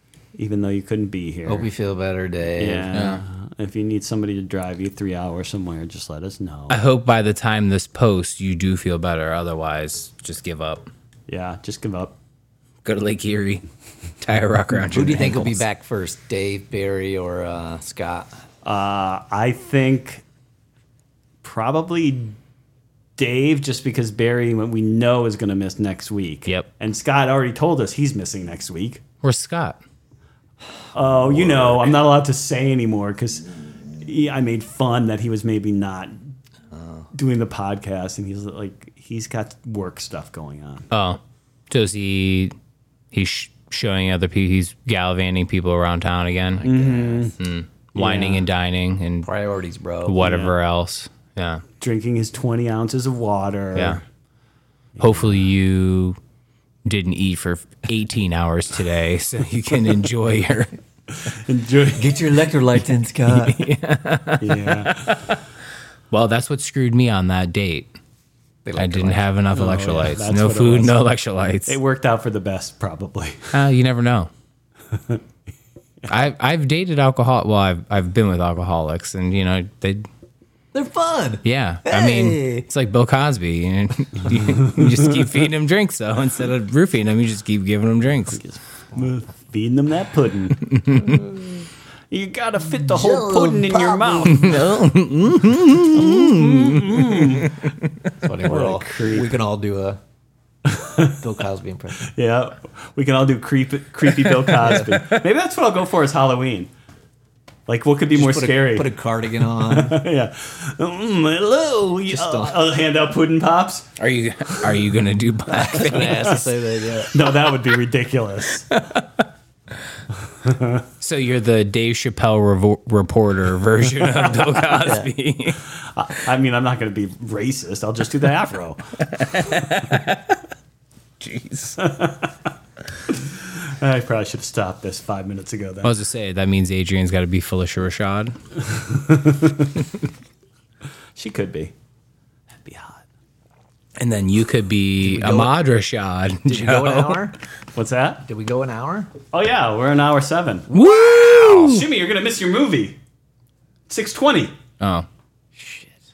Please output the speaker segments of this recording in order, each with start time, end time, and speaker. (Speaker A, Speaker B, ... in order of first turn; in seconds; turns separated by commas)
Speaker A: 0.3-1.7, Speaker B: 1.5-3.0, Speaker A: 2.6-6.8, Speaker C: 2.9-3.2, Speaker C: 6.7-10.9, Speaker A: 11.3-12.2, Speaker C: 12.8-13.6, Speaker C: 14.2-15.6, Speaker B: 14.9-18.4, Speaker A: 18.6-20.2, Speaker A: 21.4-22.4, Speaker A: 23.2-29.0, Speaker C: 29.2-29.8, Speaker A: 30.9-36.3, Speaker B: 36.7-37.1, Speaker A: 37.1-40.9, Speaker C: 40.9-42.5, Speaker C: 43.1-46.7, Speaker B: 46.5-47.3, Speaker A: 46.6-47.4, Speaker C: 47.4-49.3, Speaker A: 48.0-48.4, Speaker B: 49.2-50.2, Speaker C: 50.0-51.6, Speaker A: 50.2-50.5, Speaker A: 51.8-54.0, Speaker C: 53.8-54.0, Speaker A: 55.0-55.5, Speaker C: 55.0-56.2, Speaker C: 56.9-60.7, Speaker A: 61.2-62.5, Speaker B: 62.0-63.7, Speaker C: 63.3-65.4, Speaker A: 64.4-65.2, Speaker C: 66.1-68.0, Speaker B: 68.7-69.3, Speaker C: 68.8-71.8, Speaker A: 69.5-71.0, Speaker A: 71.7-73.6, Speaker C: 73.5-74.3, Speaker A: 74.9-75.2, Speaker C: 76.1-80.1, Speaker B: 80.7-82.7, Speaker C: 81.5-88.4, Speaker A: 88.3-90.6, Speaker C: 90.5-91.3, Speaker A: 92.1-94.6, Speaker B: 92.8-94.6, Speaker C: 94.3-98.1, Speaker A: 95.9-97.6, Speaker B: 98.2-100.0, Speaker A: 98.4-99.3, Speaker A: 100.7-101.2, Speaker B: 101.1-102.1, Speaker A: 102.0-106.7, Speaker C: 104.3-105.2, Speaker A: 107.7-108.9, Speaker B: 108.2-110.0, Speaker A: 109.4-113.9, Speaker B: 112.1-112.6, Speaker C: 114.0-116.5, Speaker B: 115.5-117.2, Speaker A: 115.8-116.4, Speaker A: 117.1-118.8, Speaker A: 120.2-120.9, Speaker C: 121.0-125.6, Speaker A: 124.2-124.6, Speaker A: 125.7-129.1, Speaker C: 129.0-130.4, Speaker C: 131.2-131.8, Speaker A: 131.8-132.3, Speaker A: 133.1-136.0, Speaker C: 135.8-138.4, Speaker A: 138.7-139.8, Speaker A: 141.2-141.7, Speaker A: 142.6-143.0, Speaker C: 144.0-147.3, Speaker B: 145.0-145.5, Speaker B: 146.4-147.4, Speaker A: 147.8-148.2, Speaker B: 148.2-149.1, Speaker A: 149.3-150.7, Speaker C: 150.7-151.9, Speaker A: 151.2-153.0, Speaker A: 153.9-154.5, Speaker C: 154.8-155.1, Speaker B: 155.6-156.0